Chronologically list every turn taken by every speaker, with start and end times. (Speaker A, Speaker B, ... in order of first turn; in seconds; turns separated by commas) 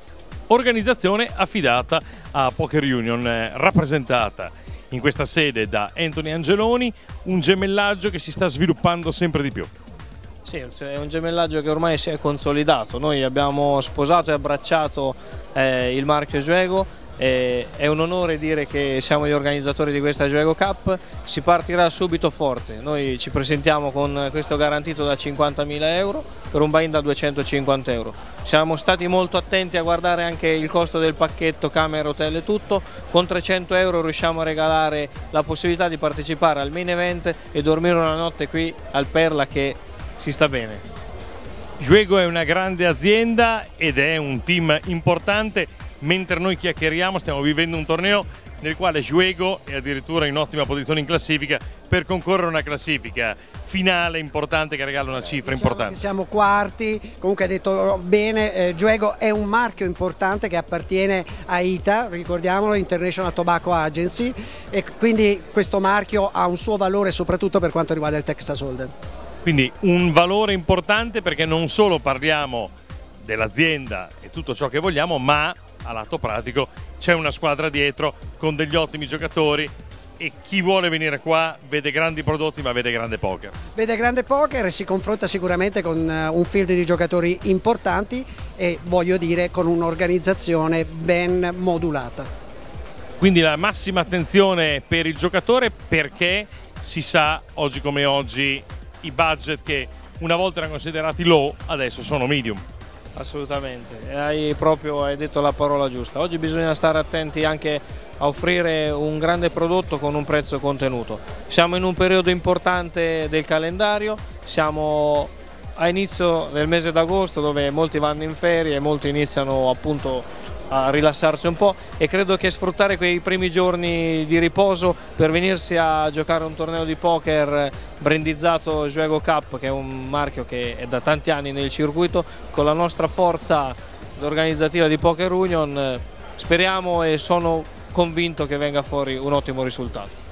Speaker A: 0.5-9.7, Speaker B: 10.4-40.8, Speaker A: 41.8-56.0, Speaker C: 55.4-68.9, Speaker A: 69.4-72.7, Speaker A: 73.2-83.5, Speaker C: 83.8-92.3, Speaker A: 93.2-102.6, Speaker B: 103.1-140.2